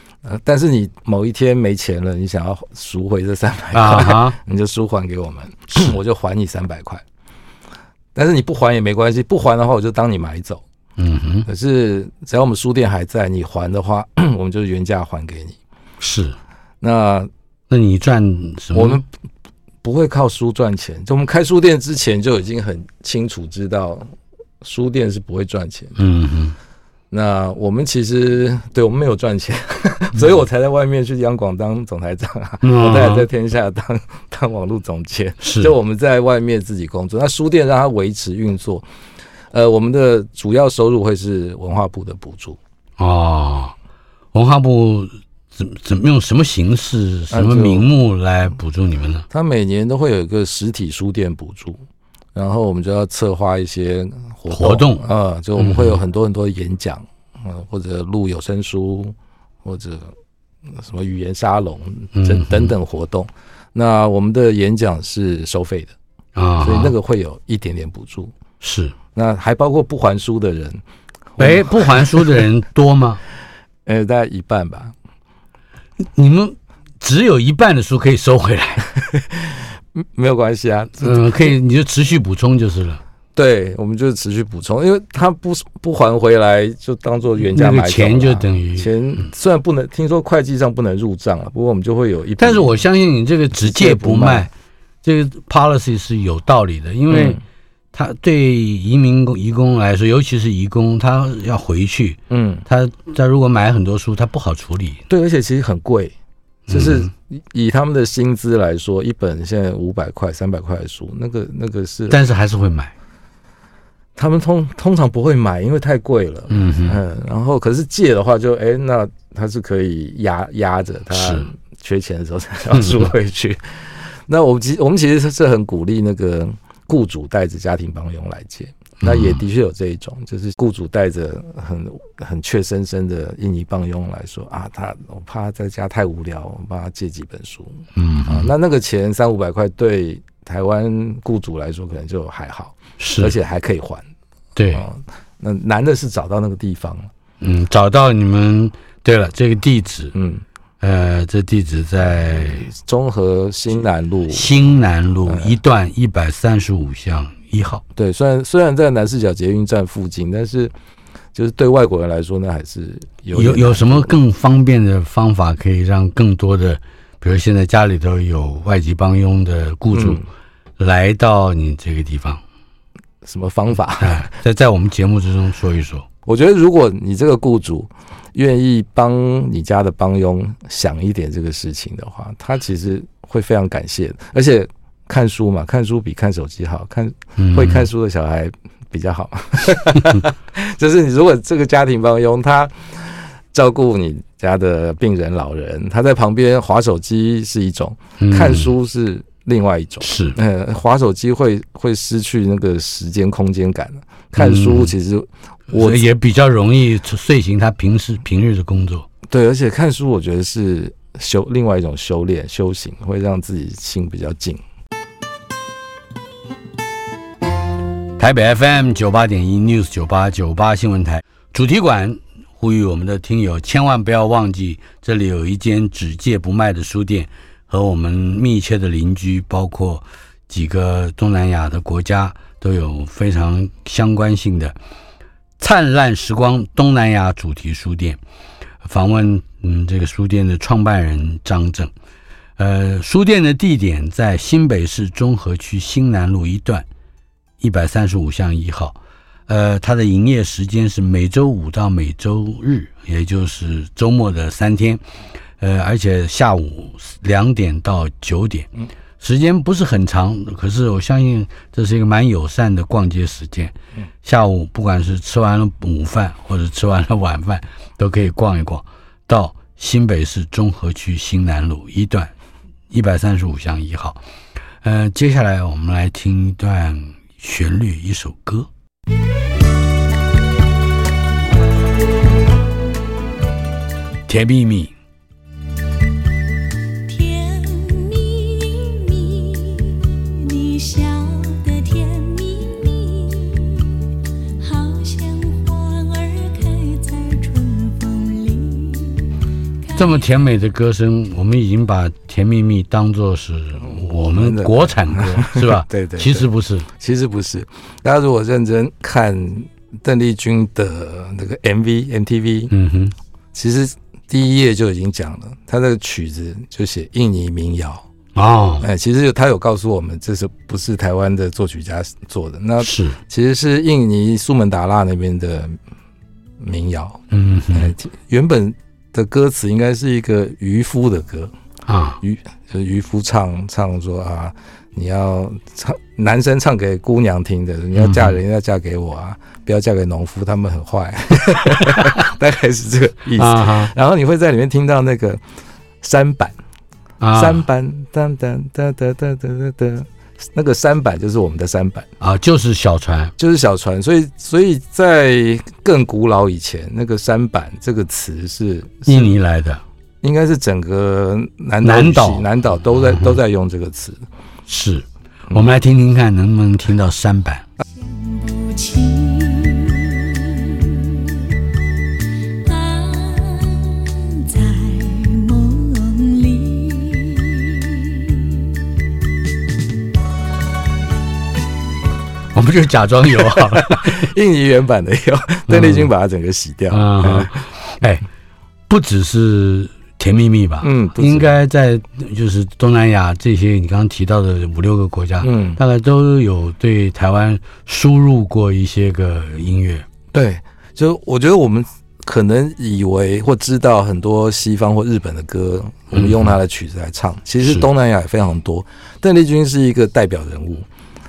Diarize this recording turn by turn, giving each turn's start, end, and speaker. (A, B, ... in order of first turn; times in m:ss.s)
0:00.2-0:07.0 A
0:03.7-0:04.4 B
0:08.2-0:10.6 A
0:11.0-0:11.5 B
0:11.5-0:15.6 A
0:16.0-0:16.4 B
0:16.8-0:17.3 A
0:17.7-0:19.0 B
0:18.7-0:19.1 A
0:19.8-0:26.0 A
0:26.0-0:26.6 B
0:27.1-0:38.8 A
0:32.6-0:33.3 B
0:35.4-0:35.7 B
0:39.5-0:42.6 A
0:43.0-0:43.8 B
0:44.3-0:49.3 B
0:47.3-0:47.9 A
0:49.3-0:51.8 A
0:52.4-1:00.2 A
0:54.5-0:55.0 B
0:55.6-0:56.0 B
1:00.7-1:05.9 A
1:02.1-1:02.7 B
1:06.4-1:06.9 B
1:06.6-1:08.3 A
1:08.6-1:09.0 B
1:09.1-1:10.8 A
1:11.4-1:12.4 A
1:11.4-1:13.2 B
1:13.9-1:14.9 A
1:16.2-1:18.9 B
1:19.1-1:21.4 A
1:21.0-1:23.0 B
1:23.4-1:32.8 A
1:27.5-1:29.2 B
1:32.4-1:34.5 B
1:33.6-1:34.5 A
1:35.0-1:37.4 B
1:37.1-1:37.4 A
1:37.9-1:45.0 B
1:42.3-1:42.7 A
1:45.1-1:46.1 A
1:46.7-1:47.1 B
1:46.7-1:52.2 A
1:52.1-1:52.9 B
1:54.2-2:24.0 A
1:56.5-1:57.0 B
2:01.1-2:01.5 B
2:02.7-2:03.0 B
2:09.0-2:09.4 B
2:18.0-2:18.5 B
2:23.0-2:23.4 B
2:24.6-2:24.9 B
2:24.7-2:27.1 A
2:27.4-2:30.1 B
2:30.1-2:30.4 A
2:30.8-2:32.7 B
2:32.5-2:34.5 A
2:34.3-2:37.8 B
2:35.3-2:35.6 A
2:38.0-2:40.7 A
2:41.3-2:44.2 A
2:43.3-2:50.2 B
2:49.9-2:50.2 A
2:50.8-2:52.4 B
2:53.2-2:54.3 A
2:54.0-2:56.1 B
2:56.3-3:26.1 A
3:07.4-3:07.9 B
3:18.2-3:18.7 B
3:20.0-3:20.4 B
3:24.4-3:24.9 B
3:25.7-3:29.1 B
3:29.3-3:34.6 A
3:38.2-3:54.8 B
3:55.6-3:58.2 B
3:58.8-4:01.9 B
4:02.6-4:06.9 B
4:07.6-4:15.0 B
4:15.6-4:32.3 B
4:32.9-4:34.2 B
4:34.8-4:38.7 B
4:44.3-4:44.9 B
4:47.1-4:54.0 C
4:54.6-4:59.4 C
4:59.9-5:00.3 C
5:00.0-5:06.9 B
5:03.8-5:12.7 A
5:12.7-5:13.2 B
5:13.5-5:18.1 A
5:18.4-5:18.9 B
5:18.8-5:25.8 A
5:22.8-5:23.2 B
5:26.6-5:31.5 A
5:27.3-5:27.9 B
5:31.9-5:32.2 B
5:32.2-5:45.4 A
5:38.0-5:38.4 B
5:41.8-5:42.2 B
5:43.4-5:43.9 B
5:46.0-5:46.6 A
5:47.2-5:47.6 B
5:47.3-5:52.1 A
5:52.2-5:53.3 B
5:53.4-5:59.4 A
5:59.1-5:59.8 B
6:00.2-6:04.2 A
6:01.8-6:03.4 B
6:04.7-6:07.7 B
6:07.9-6:11.5 C
6:12.6-6:18.8 C
6:22.5-6:24.3 B
6:23.4-6:27.5 A
6:25.7-6:26.1 B
6:26.9-6:28.2 B
6:28.9-6:40.0 B
6:30.8-6:31.5 A
6:35.4-6:35.8 A
6:40.3-6:50.9 A
6:46.1-6:46.5 B